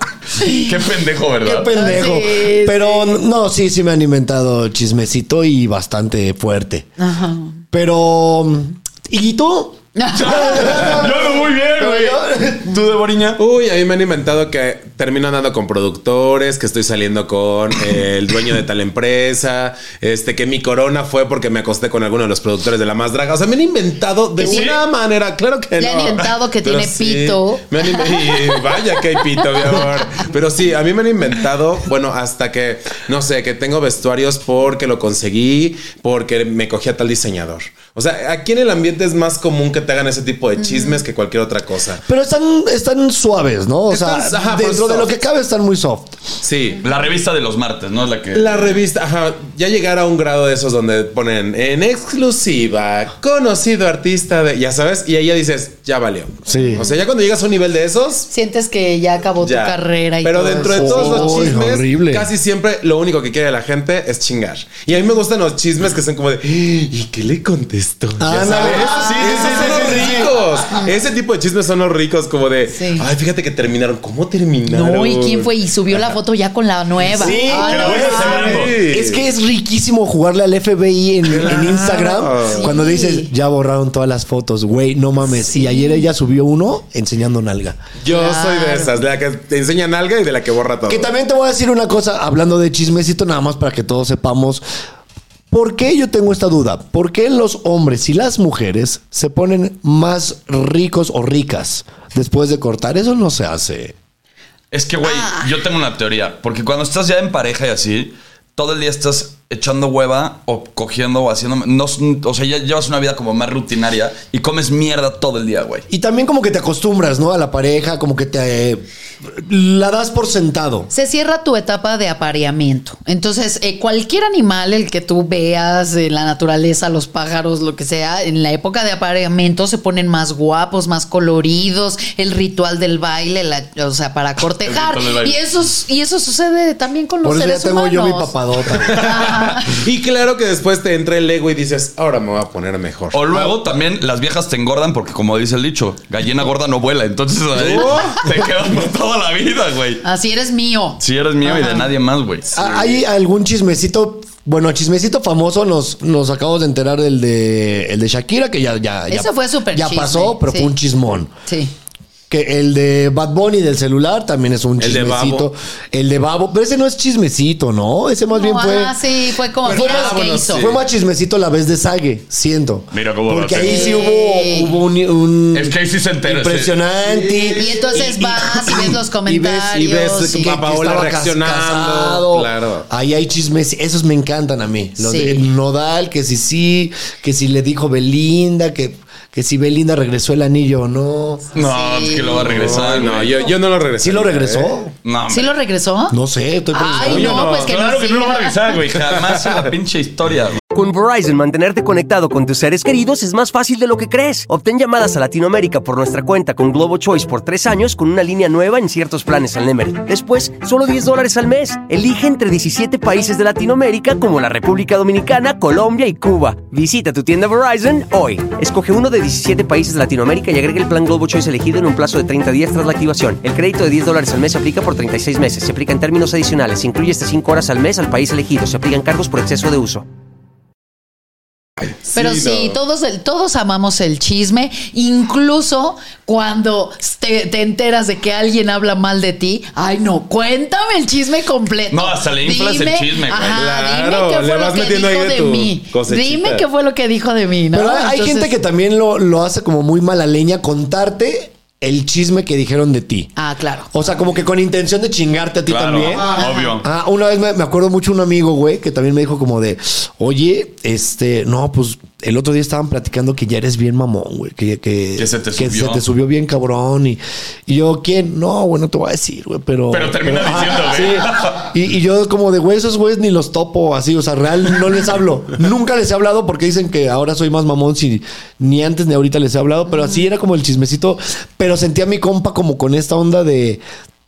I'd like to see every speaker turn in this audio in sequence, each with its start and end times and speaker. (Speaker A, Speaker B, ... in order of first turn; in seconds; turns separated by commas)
Speaker A: 0.4-0.7, Speaker B: 0.5-2.1, Speaker C: 1.4-6.9, Speaker A: 1.7-3.2, Speaker A: 7.0-7.6, Speaker C: 7.7-12.8, Speaker A: 9.9-10.9, Speaker B: 10.1-13.4, Speaker D: 13.4-42.0, Speaker B: 24.4-24.8, Speaker A: 24.4-24.8, Speaker A: 25.8-28.6, Speaker A: 40.6-41.0, Speaker C: 42.0-46.2, Speaker D: 43.9-45.1, Speaker D: 46.4-46.8, Speaker B: 46.8-48.8, Speaker D: 48.3-58.3, Speaker C: 56.5-56.9, Speaker A: 58.3-61.5, Speaker D: 59.4-75.5, Speaker C: 60.4-62.3, Speaker C: 68.2-70.3, Speaker A: 68.5-70.1, Speaker A: 72.7-73.1, Speaker A: 74.7-78.6, Speaker C: 77.1-87.8, Speaker D: 77.3-79.2, Speaker B: 77.5-78.9, Speaker D: 81.3-82.6, Speaker A: 82.5-83.3, Speaker A: 85.5-86.0, Speaker D: 88.0-91.1, Speaker A: 88.1-88.9, Speaker C: 90.9-94.6, Speaker C: 95.5-104.0, Speaker B: 104.7-115.9, Speaker A: 105.0-105.5, Speaker C: 115.9-120.9, Speaker A: 120.9-138.3, Speaker B: 134.7-135.4, Speaker C: 137.2-139.1, Speaker D: 138.9-143.7, Speaker A: 138.9-139.8, Speaker B: 143.1-150.0, Speaker D: 147.5-148.5, Speaker A: 150.0-151.9, Speaker B: 151.0-152.5, Speaker D: 152.5-153.0, Speaker C: 152.5-161.3, Speaker A: 159.1-160.8, Speaker A: 161.5-161.7, Speaker C: 162.3-169.0, Speaker D: 164.8-165.5, Speaker A: 168.3-170.8, Speaker D: 169.6-170.8, Speaker C: 169.7-191.5, Speaker B: 172.9-173.9, Speaker A: 173.6-174.8, Speaker B: 175.5-176.8, Speaker A: 177.6-180.6, Speaker D: 179.7-182.9, Speaker A: 185.0-185.5, Speaker A: 191.5-192.7, Speaker B: 191.5-193.5, Speaker D: 192.4-194.7, Speaker C: 194.0-194.9, Speaker B: 195.0-195.5, Speaker A: 195.3-196.2, Speaker C: 196.1-197.6, Speaker A: 196.7-198.8, Speaker D: 197.0-197.7, Speaker B: 197.5-200.6, Speaker E: 200.7-230.1, Speaker D: 231.9-232.8, Speaker A: 232.1-248.5, Speaker B: 241.9-243.6, Speaker D: 243.5-246.6, Speaker C: 247.7-253.3, Speaker A: 253.4-253.9, Speaker C: 253.9-283.8, Speaker B: 255.7-256.9, Speaker A: 256.3-256.8, Speaker B: 265.2-266.0, Speaker B: 269.9-271.7